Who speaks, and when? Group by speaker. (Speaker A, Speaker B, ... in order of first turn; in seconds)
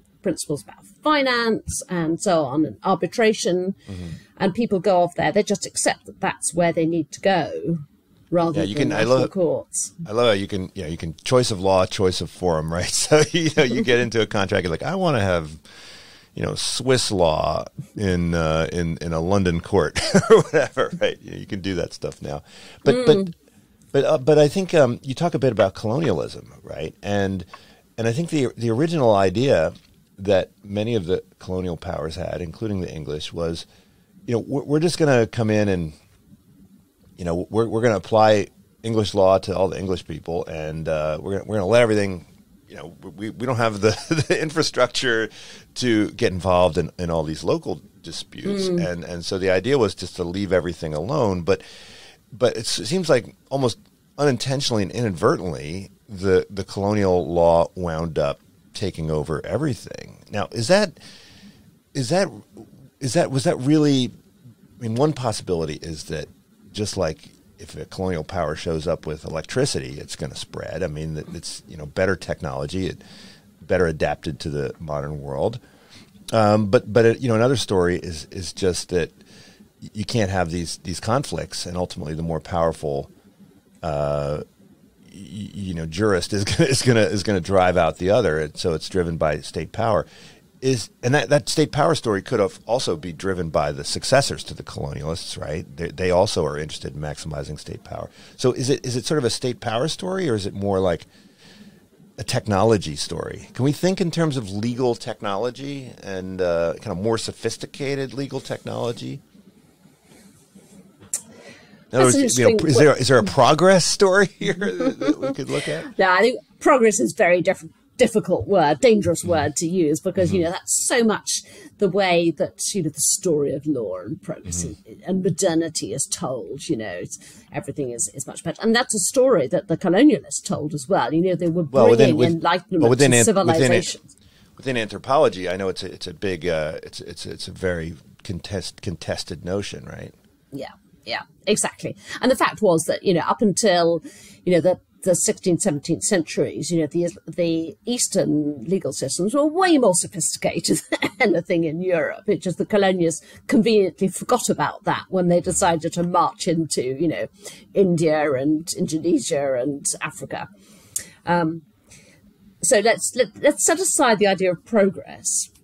Speaker A: 0.2-3.8, 4.4-9.9, 22.9-23.3, 48.5-48.9, 111.9-112.9, 115.9-134.0, 140.5-160.5, 161.2-161.6, 162.6-165.5
Speaker B: 8.5-9.3, 10.0-15.6, 16.4-23.3, 23.9-27.5, 28.0-33.7, 34.3-36.0, 37.2-51.6, 52.3-61.0, 61.9-64.1, 64.8-73.0, 73.6-75.6, 76.3-79.2, 79.8-83.1, 83.8-84.4, 85.1-90.1, 90.6-101.1, 102.2-109.2, 111.9-115.9, 131.7-133.9, 134.6-140.2